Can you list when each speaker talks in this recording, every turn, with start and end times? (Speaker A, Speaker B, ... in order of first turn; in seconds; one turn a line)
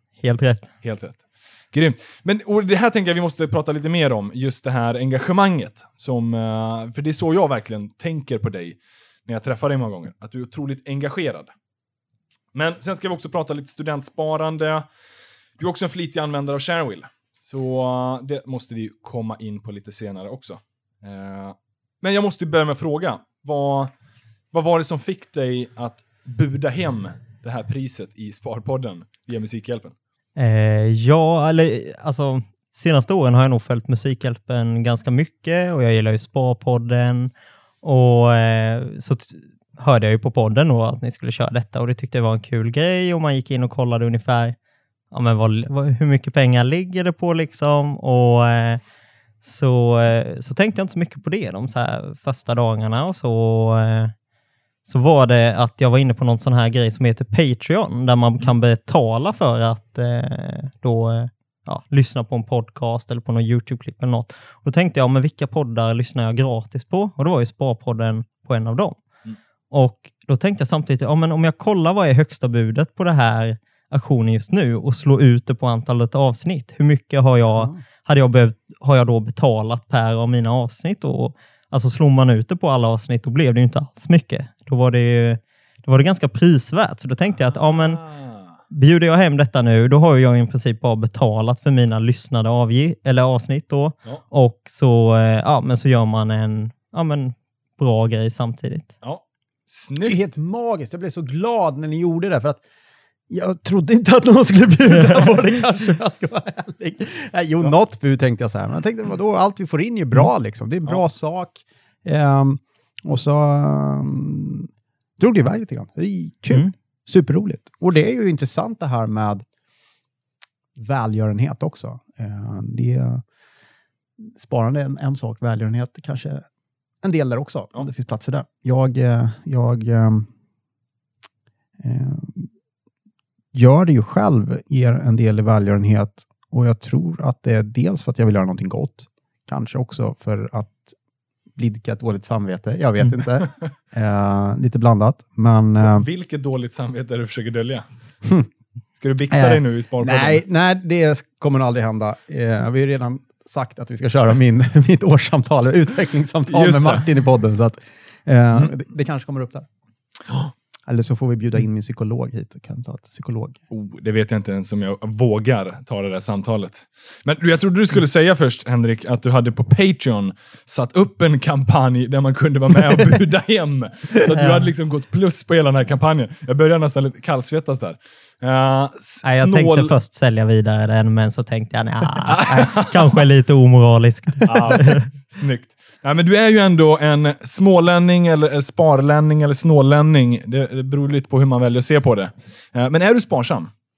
Speaker A: 0.2-0.7
Speaker B: 0.8-11.5
Speaker B: 12.5-14.9
Speaker B: 15.6-23.9
Speaker B: 24.5-29.9
Speaker A: 30.4-44.6
Speaker A: 45.1-48.8
Speaker A: 49.4-54.1
Speaker A: 54.9-69.0
Speaker A: 69.7-88.0
Speaker C: 77.5-77.8
Speaker B: 87.5-88.6
Speaker A: 88.7-98.9
Speaker B: 99.0-100.2
Speaker C: 100.0-102.6
Speaker C: 103.3-119.5
Speaker A: 104.9-105.3
Speaker C: 120.8-123.2
Speaker C: 124.2-126.5
Speaker C: 127.0-130.3
Speaker C: 131.8-132.5
Speaker C: 133.5-141.0
Speaker C: 141.6-146.1
Speaker B: 145.8-147.9
Speaker B: 149.0-150.4
Speaker C: 149.3-159.7
Speaker B: 156.5-157.0
Speaker C: 160.9-163.6
Speaker B: 163.7-179.9
Speaker A: 174.3-174.7
Speaker A: 179.2-185.1
Speaker B: 182.2-183.2
Speaker B: 184.5-193.7